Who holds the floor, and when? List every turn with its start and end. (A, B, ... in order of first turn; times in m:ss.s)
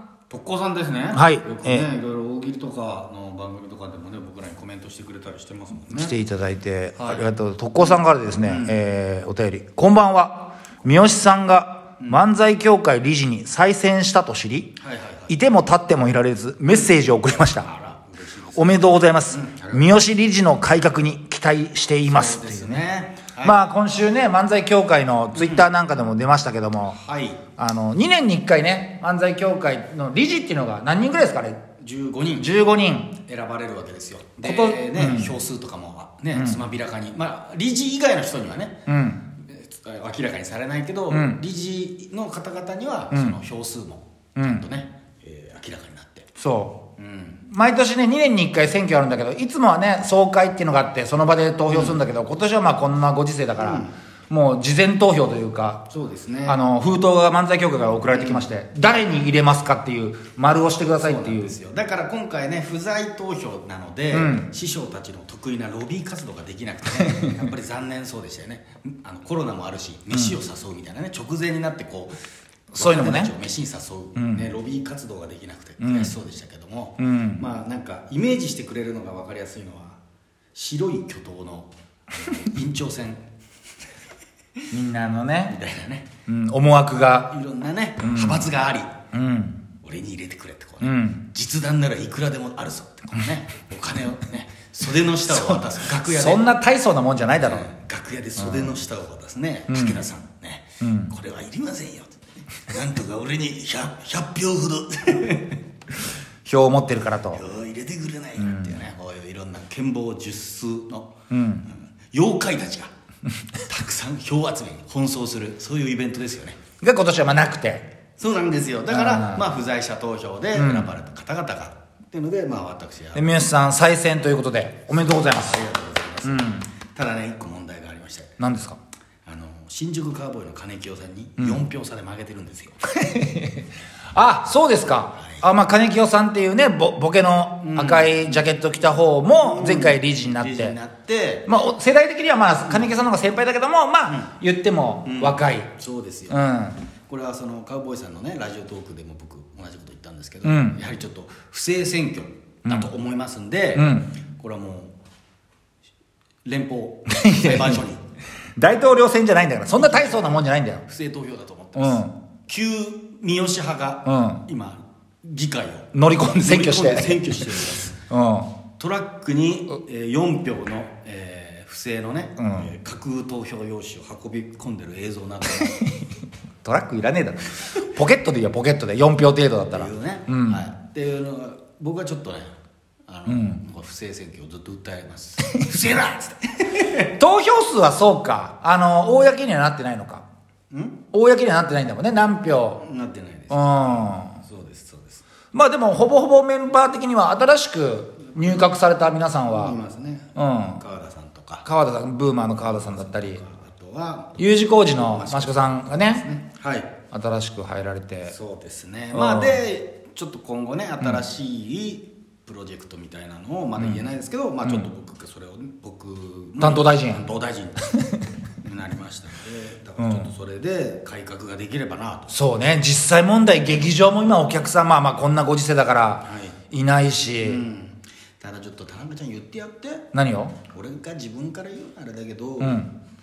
0:00.3-0:06.2 A
0:01.1-0:01.8 B
0:05.9-0:14.7 B
0:07.0-0:07.2 A
0:08.4-0:08.8 A
0:14.8-0:15.3 A
0:15.3-0:17.7 B
0:17.4-0:19.9 A
0:18.5-0:22.8 B
0:22.0-0:23.6 A
0:23.4-0:27.0 B
0:25.3-0:25.7 A
0:27.0-0:27.4 A
0:27.6-0:31.6 B
0:31.8-0:32.6 A
0:32.4-0:33.1 B
0:33.2-0:46.3 A
0:34.4-0:35.3 B
0:38.9-0:39.2 B
0:41.1-0:41.4 B
0:43.1-0:43.4 B
0:44.4-0:44.6 B
0:46.4-0:46.8 B
0:47.0-0:47.4 A
0:47.5-0:55.8 B
0:51.7-0:52.0 A
0:53.6-0:53.9 A
0:55.9-0:56.6 A
0:56.4-1:01.5 B
0:58.1-0:58.5 A
1:00.6-1:12.2 A
1:04.1-1:04.5 B
1:07.0-1:07.4 B
1:12.7-1:13.3 B
1:12.7-1:20.0 A
1:14.2-1:14.5 B
1:15.8-1:16.1 B
1:17.0-1:17.4 B
1:20.5-1:23.2 A
1:24.7-1:25.6 B
1:25.5-1:26.1 A
1:26.3-1:27.3 B
1:27.3-1:28.9 A
1:28.0-1:28.5 B
1:29.1-1:29.6 B
1:29.8-1:36.5 A
1:30.8-1:31.2 B
1:35.3-1:37.7 B
1:37.4-1:45.6 A
1:38.4-1:38.8 B
1:39.7-1:40.0 B
1:40.8-1:41.1 B
1:46.4-1:47.4 B
1:47.3-1:51.1 A
1:48.4-1:48.8 B
1:51.3-1:51.7 B
1:51.7-1:52.9 A
1:53.6-1:56.6 A
1:56.8-1:57.9 B
1:58.2-2:03.3 A
1:58.9-1:59.4 B
2:00.6-2:00.9 B
2:03.1-2:05.6 B
2:04.9-2:08.4 A
2:06.2-2:06.7 B
2:08.4-2:08.8 B
2:09.2-2:12.8 A
2:13.0-2:20.8 B
2:15.2-2:15.4 A
2:17.6-2:18.4 A
2:19.4-2:21.5 A
2:21.5-2:25.7 B
2:22.6-2:23.0 A
2:24.1-2:24.4 A
2:25.0-2:26.4 A
2:26.3-2:26.8 B
2:27.1-2:34.9 A
2:30.4-2:30.8 B
2:33.7-2:34.1 B
2:36.4-2:38.0 A
2:37.1-2:37.8 B
2:38.6-2:40.8 B
2:39.7-2:48.0 A
2:41.8-2:42.1 B
2:44.0-2:44.4 B
2:45.9-2:48.5 B
2:48.8-2:55.8 A
2:52.4-2:52.7 B
2:55.6-2:56.1 B
2:56.6-3:00.6 B
2:59.7-3:02.6 A
3:03.1-3:07.1 A
3:03.3-3:03.6 B
3:07.0-3:10.2 B
3:10.7-3:11.0 A
3:11.1-3:12.8 B
3:12.8-3:15.2 A
3:13.5-3:14.4 B
3:15.5-3:19.8 B
3:18.4-3:18.7 A
3:19.4-3:21.6 A
3:20.4-3:20.8 B
3:21.6-3:23.4 B
3:22.4-3:24.4 A
3:24.4-3:26.2 B
3:25.0-3:26.9 A
3:27.1-3:28.3 B
3:28.2-3:37.9 A
3:29.1-3:29.6 B
3:36.6-3:37.2 B
3:38.6-3:42.3 A
3:40.0-3:40.3 B
3:42.3-3:47.6 B
3:46.2-3:46.6 A
3:47.4-3:50.1 A
3:50.1-3:50.6 B
3:50.7-3:52.8 A
3:52.6-3:52.9 B